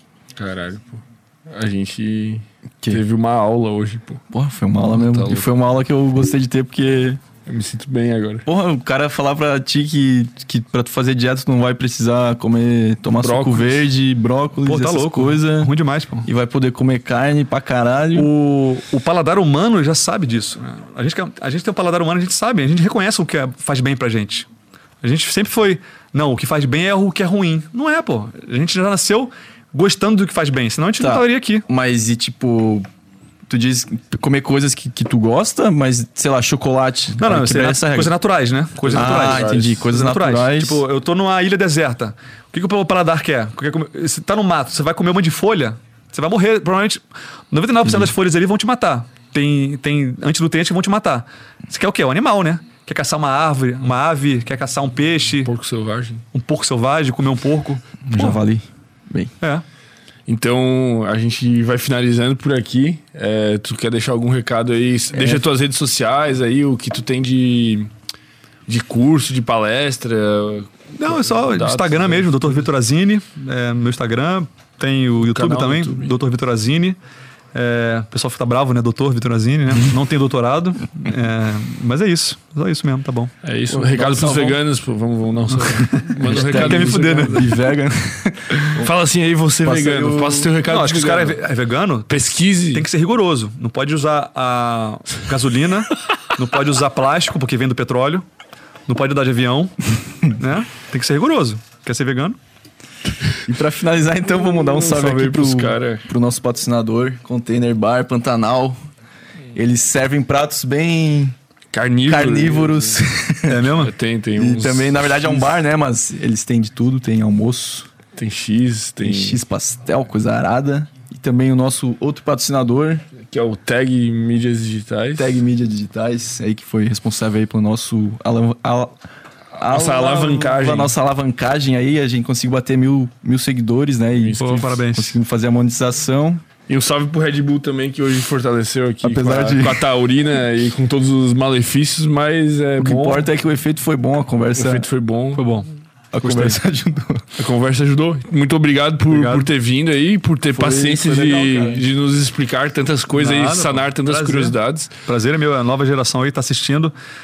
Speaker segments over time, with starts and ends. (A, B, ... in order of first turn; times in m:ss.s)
0:00.4-0:04.2 A
0:04.3-0:07.2 B
0:04.9-0:05.5 A
0:07.4-0:08.5 A
0:08.4-0:15.7 B
0:13.2-0:13.8 A
0:14.6-0:16.3 C
0:16.2-0:18.3 B
0:18.1-0:24.5 C
0:25.0-0:31.6 C
0:31.0-0:32.9 B
0:33.5-0:38.1 B
0:37.2-0:55.5 C
0:38.8-0:40.8 B
0:38.9-0:39.8 A
0:47.8-0:48.1 B
0:55.4-0:56.2 A
0:56.3-0:58.4 C
0:58.0-0:59.3 B
1:00.3-1:07.9 A
1:05.1-1:05.4 B
1:08.7-1:12.7 A
1:11.0-1:17.0 C
1:15.2-1:16.1 A
1:17.5-1:23.3 C
1:23.4-1:27.5 A
1:23.7-1:24.6 B
1:25.7-1:27.5 C
1:26.3-1:28.9 B
1:28.7-1:31.4 A
1:29.6-1:30.5 B
1:30.6-1:38.2 C
1:32.1-1:32.8 A
1:38.9-1:42.4 C
1:43.4-1:48.8 B
1:44.3-1:46.1 A
1:49.5-1:51.3 B
1:51.7-1:53.0 A
1:52.0-1:53.7 B
1:53.4-1:53.9 C
1:53.8-1:55.5 A
1:54.4-1:57.9 B
1:58.1-1:59.4 A
1:59.0-2:03.0 B
2:03.2-2:05.3 A
2:05.2-2:09.0 B
2:09.6-2:16.4 B
2:09.6-2:10.9 A
2:14.2-2:14.8 A
2:14.4-2:15.2 C
2:16.7-2:23.3 A
2:19.0-2:19.8 B
2:22.8-2:24.9 B
2:24.5-2:25.5 A
2:25.3-2:25.7 C
2:26.1-2:27.2 B
2:26.2-2:26.5 C
2:27.4-2:34.9 A
2:29.1-2:29.5 C
2:30.5-2:31.9 B
2:33.1-2:36.9 C